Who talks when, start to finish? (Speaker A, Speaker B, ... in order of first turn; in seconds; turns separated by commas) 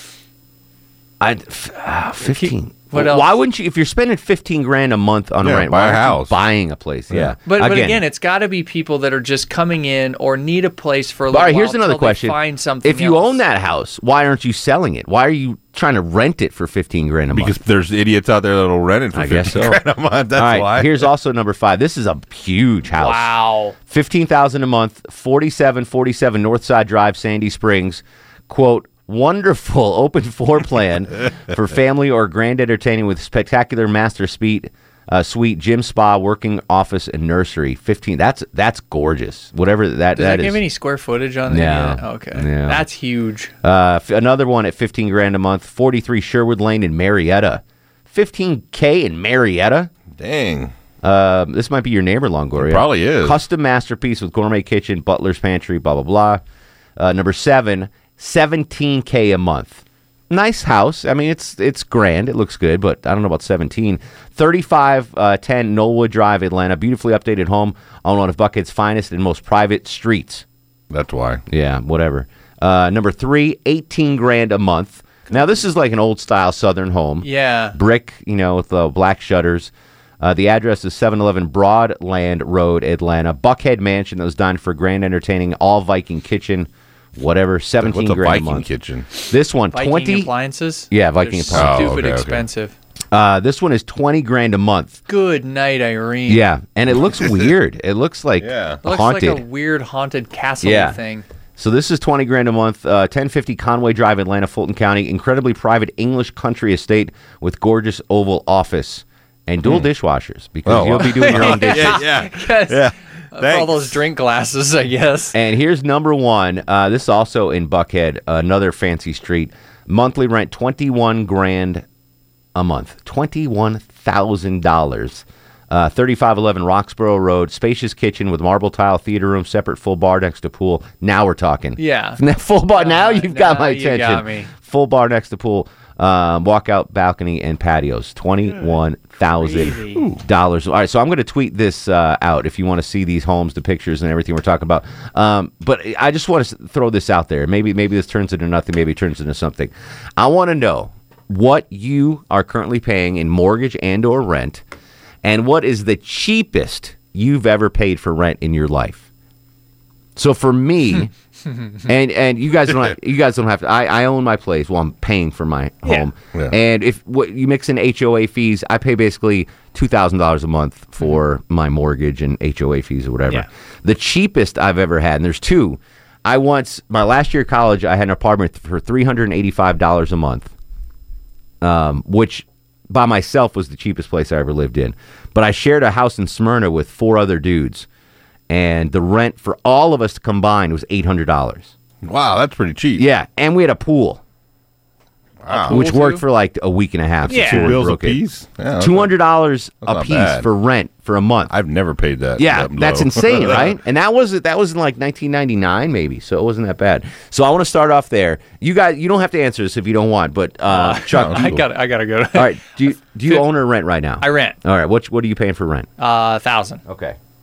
Speaker A: 1.2-8.0, Speaker B: 2.2-3.3, Speaker C: 5.4-6.3, Speaker B: 7.5-13.4, Speaker A: 11.3-17.6, Speaker C: 17.3-21.1, Speaker A: 19.1-19.8, Speaker A: 20.3-23.3, Speaker B: 22.9-23.7, Speaker A: 23.9-40.6, Speaker B: 40.1-43.5, Speaker A: 41.5-42.8, Speaker A: 43.6-49.9, Speaker C: 50.2-50.7, Speaker A: 51.0-56.4, Speaker C: 52.6-53.4, Speaker A: 57.0-70.4, Speaker C: 70.9-71.4, Speaker A: 71.5-88.6, Speaker B: 77.2-77.8, Speaker C: 87.8-89.1, Speaker A: 89.3-90.3, Speaker B: 89.7-92.7, Speaker A: 90.9-92.0, Speaker C: 91.5-92.4, Speaker A: 93.1-95.0, Speaker B: 95.1-96.4, Speaker A: 96.3-99.4, Speaker C: 98.4-98.8, Speaker B: 98.8-101.2, Speaker A: 100.6-101.0, Speaker A: 101.6-112.0, Speaker C: 110.7-114.0, Speaker B: 110.9-115.4, Speaker A: 115.3-121.8, Speaker A: 122.5-154.6, Speaker B: 131.8-132.2, Speaker B: 132.7-134.5, Speaker B: 139.3-140.1, Speaker A: 155.2-159.1, Speaker A: 160.2-161.1, Speaker B: 160.9-161.8, Speaker A: 161.8-180.5, Speaker A: 181.6-187.9, Speaker A: 188.5-191.7, Speaker C: 192.0-193.0, Speaker A: 193.0-194.2, Speaker C: 195.4-195.8, Speaker B: 195.5-196.2, Speaker A: 195.7-198.2, Speaker C: 197.2-199.1, Speaker B: 197.3-197.8, Speaker A: 198.8-201.5, Speaker C: 199.8-200.5, Speaker C: 201.5-203.8, Speaker A: 202.4-211.6, Speaker B: 210.7-212.6, Speaker C: 211.1-211.6, Speaker A: 212.3-215.9, Speaker B: 214.2-214.6, Speaker B: 216.0-216.8, Speaker A: 216.8-217.2